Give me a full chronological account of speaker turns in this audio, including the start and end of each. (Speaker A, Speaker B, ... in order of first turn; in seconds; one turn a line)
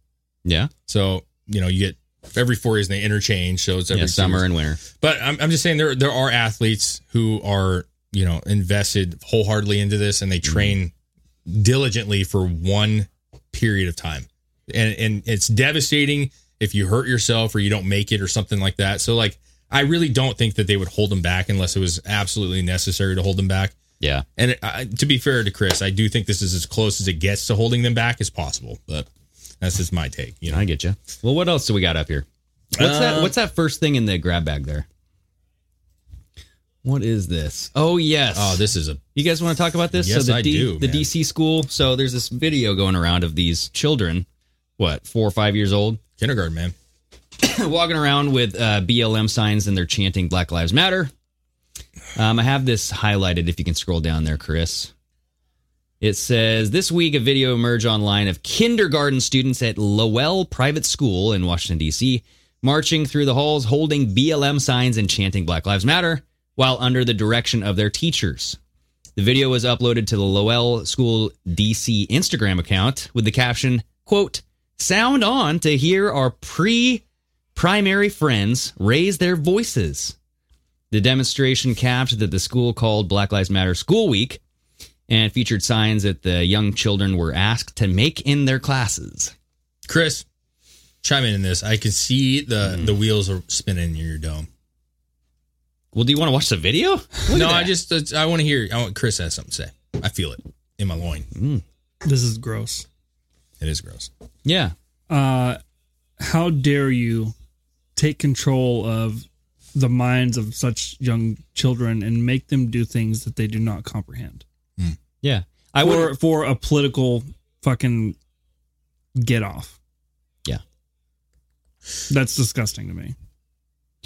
Speaker A: 0.4-0.7
Speaker B: 0.9-10.9
Speaker A: 3.9-4.8
Speaker A: 10.4-10.8
Speaker B: 11.5-23.8
Speaker A: 24.0-24.3
Speaker B: 24.4-29.1
Speaker B: 29.6-30.6
Speaker A: 30.5-34.9
Speaker B: 32.8-33.3
Speaker A: 36.8-44.3
Speaker B: 38.3-39.1
Speaker B: 39.9-41.1
Speaker A: 44.8-46.0
Speaker B: 46.2-46.8
Speaker A: 47.4-51.1
Speaker A: 52.1-54.9
Speaker A: 56.0-68.6
Speaker A: 69.2-77.0
Speaker A: 77.5-80.1
Speaker A: 80.9-84.4
Speaker A: 85.1-89.3
Speaker B: 89.9-90.3
Speaker B: 91.0-94.5
Speaker A: 92.6-93.0
Speaker A: 95.9-97.8
Speaker B: 97.3-101.3
Speaker A: 101.3-101.6
Speaker C: 102.0-102.9
Speaker B: 103.6-104.1
Speaker A: 104.4-104.7
Speaker C: 105.1-105.6
Speaker C: 106.2-107.3
Speaker C: 108.0-114.4
Speaker A: 115.2-116.2
Speaker C: 115.8-118.2
Speaker C: 119.2-119.8
Speaker C: 122.1-123.1